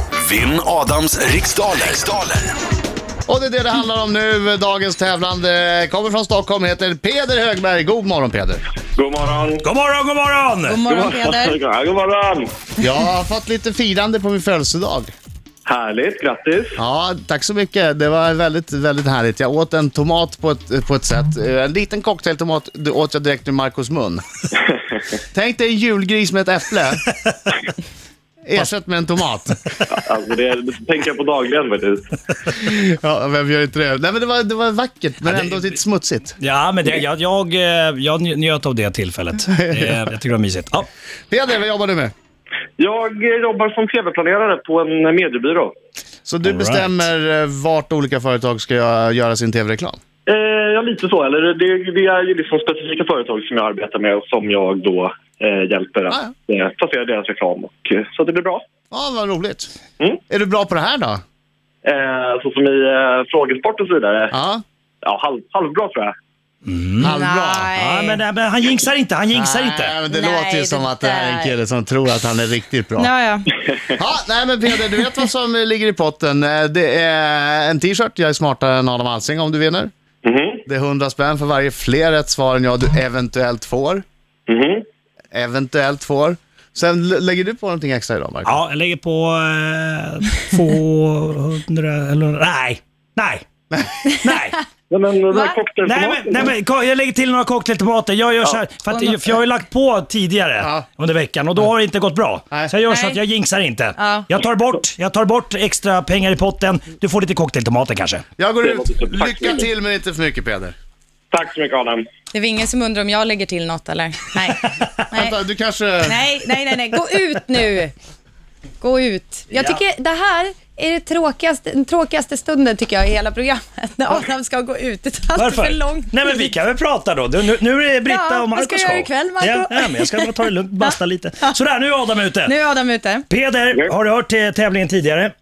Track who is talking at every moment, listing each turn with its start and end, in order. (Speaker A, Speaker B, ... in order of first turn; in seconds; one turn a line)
Speaker A: 0.2-2.4
Speaker B: 3.2-8.6
Speaker C: 8.9-9.7
Speaker D: 9.6-10.8
Speaker E: 10.6-11.6
Speaker C: 10.9-12.5
Speaker B: 12.8-15.1
Speaker C: 15.7-16.8
Speaker B: 16.8-24.2
Speaker B: 25.3-27.0
Speaker B: 28.4-29.7
Speaker C: 29.9-32.1
Speaker B: 32.5-36.4
Speaker D: 35.2-35.6
Speaker D: 36.4-40.9
Speaker B: 39.6-39.9
Speaker B: 41.3-42.1
Speaker C: 42.8-45.7
Speaker B: 46.2-50.0
Speaker D: 46.4-47.1
Speaker C: 50.3-58.6
Speaker B: 58.9-59.7
Speaker B: 60.3-61.2
Speaker C: 61.8-64.3
Speaker B: 64.3-64.6
Speaker C: 65.0-66.1
Speaker D: 66.6-67.1
Speaker B: 67.0-67.7
Speaker E: 67.0-68.2
Speaker D: 67.7-70.0
Speaker B: 69.3-73.1
Speaker E: 70.1-71.5
Speaker E: 73.0-73.5
Speaker B: 73.9-79.9
Speaker C: 80.2-80.6
Speaker B: 80.7-84.0
Speaker C: 84.5-84.8
Speaker B: 85.3-88.5
Speaker D: 88.4-93.5
Speaker D: 94.0-94.6
Speaker C: 94.9-96.5
Speaker D: 95.8-108.2
Speaker B: 100.6-100.8
Speaker E: 102.9-103.2
Speaker E: 104.0-104.3
Speaker B: 108.4-110.7
Speaker C: 108.6-109.6
Speaker C: 111.3-112.0
Speaker E: 112.3-115.4
Speaker B: 115.1-116.2
Speaker E: 116.0-117.9
Speaker E: 118.8-126.5
Speaker D: 119.5-119.8
Speaker D: 125.3-132.5
Speaker E: 128.1-131.5
Speaker E: 132.4-133.2
Speaker D: 133.3-135.3